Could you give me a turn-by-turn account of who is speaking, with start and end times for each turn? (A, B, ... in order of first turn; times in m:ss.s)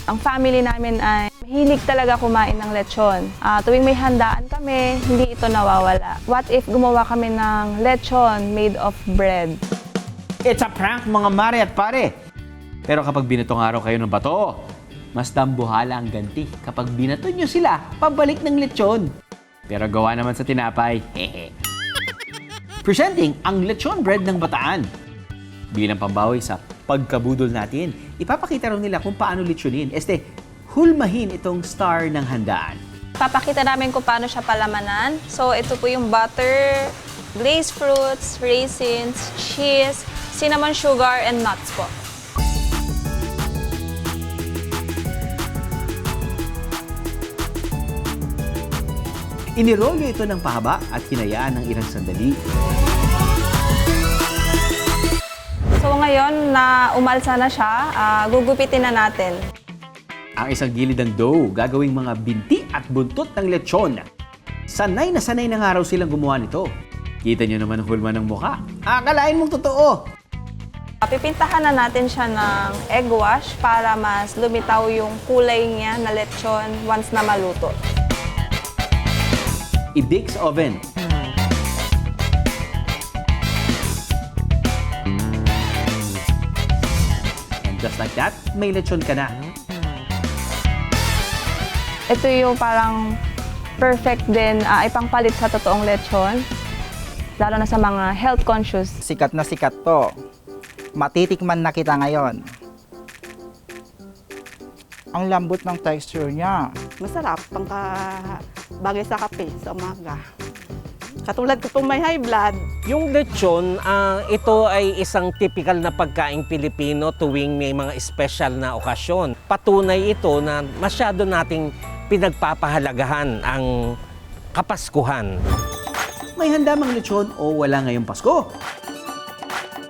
0:00.1-0:09.6 A
0:10.4-0:12.1 B
0:12.9-0:14.6 B
0:15.2-0:19.1 B
0:19.7-0:21.5 B
0:22.8-0:24.9 B
0:25.7-0:30.2 B
0:30.7-0:32.8 B
0:33.2-0:41.9 A
0:49.6-0:52.3 B
0:55.8-0:59.4 A
1:00.4-1:04.1 B
1:04.7-1:06.7 B
1:07.2-1:10.0 B
1:11.0-1:17.8 A
1:19.9-1:20.8 B
1:27.6-1:29.3 B
1:32.1-1:33.0 A
1:33.8-1:36.4 A
1:37.4-1:39.0 A
1:39.0-1:40.1 C
1:41.0-1:42.4 C
1:45.1-1:46.7 C
1:47.0-1:50.2 D
1:51.2-1:52.7 D
1:52.8-2:03.7 E
2:04.5-2:05.4 E
2:06.4-2:08.4 B